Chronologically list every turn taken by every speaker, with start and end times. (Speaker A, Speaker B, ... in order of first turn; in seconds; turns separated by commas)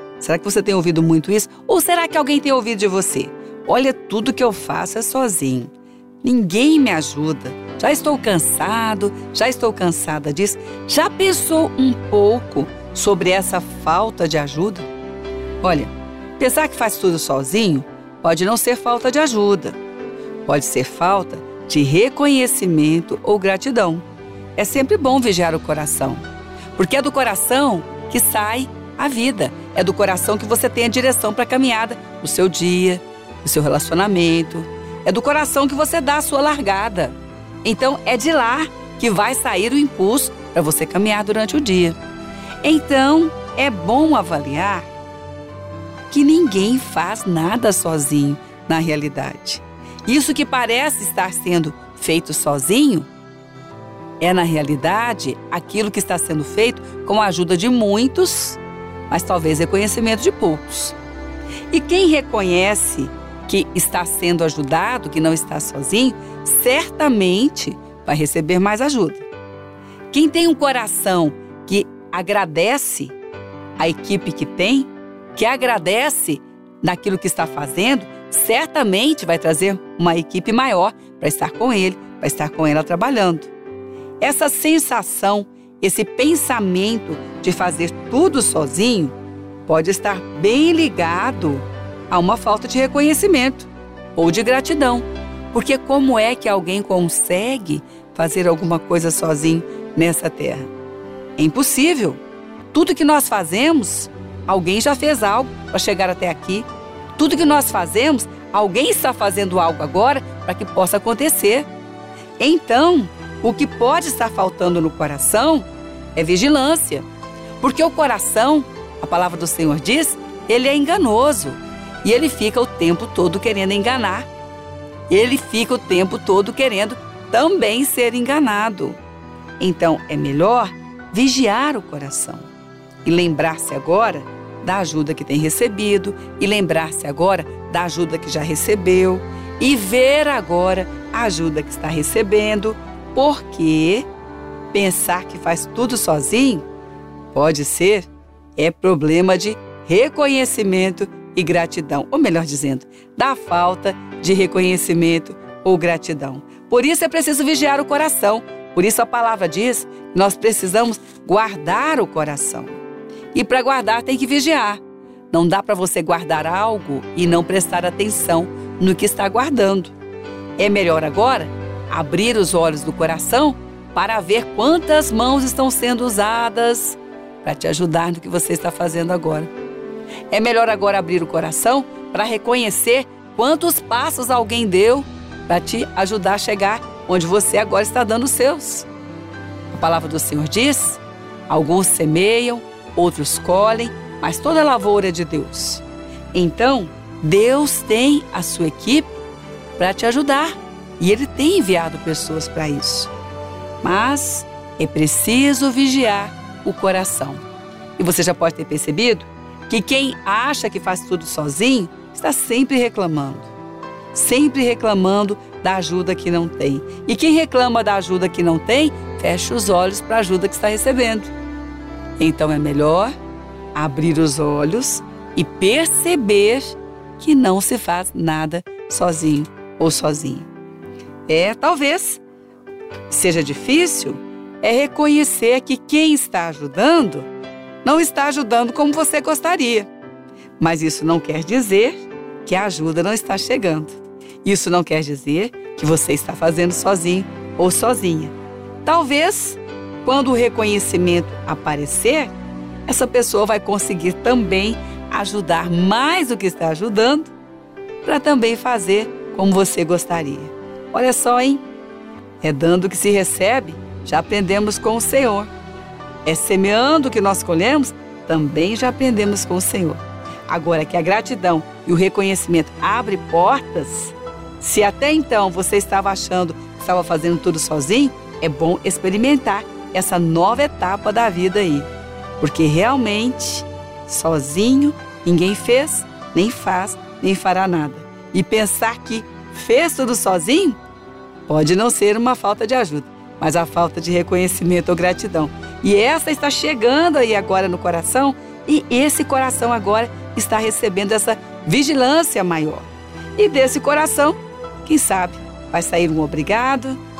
Speaker A: 0.2-5.7, Speaker A: 6.2-14.9, Speaker A: 15.6-19.8, Speaker A: 20.4-24.0, Speaker A: 24.6-26.2, Speaker A: 26.8-42.0, Speaker A: 42.6-44.9, Speaker A: 46.1-53.1, Speaker A: 54.2-61.0, Speaker A: 61.7-69.2, Speaker A: 70.1-73.1, Speaker A: 73.8-83.5, Speaker A: 84.2-89.1, Speaker A: 89.7-100.7, Speaker A: 101.4-102.2, Speaker A: 102.7-111.7, Speaker A: 112.4-117.0, Speaker A: 117.6-124.3, Speaker A: 125.1-129.0, Speaker A: 129.6-132.5, Speaker A: 133.0-144.1, Speaker A: 144.7-146.6, Speaker A: 147.3-162.8, Speaker A: 163.3-169.9, Speaker A: 170.6-179.5, Speaker A: 180.3-188.9, Speaker A: 189.7-195.8, Speaker A: 196.3-199.1, Speaker A: 199.8-203.1, Speaker A: 203.8-207.4, Speaker A: 208.0-213.5, Speaker A: 214.1-221.3, Speaker A: 222.2-223.1, Speaker A: 223.7-230.5, Speaker A: 231.3-232.2, Speaker A: 233.1-237.3, Speaker A: 237.8-239.9, Speaker A: 240.6-248.3, Speaker A: 248.8-252.3, Speaker A: 252.9-257.3, Speaker A: 258.0-261.6, Speaker A: 262.4-265.5, Speaker A: 266.2-281.9, Speaker A: 282.4-290.8, Speaker A: 291.5-307.0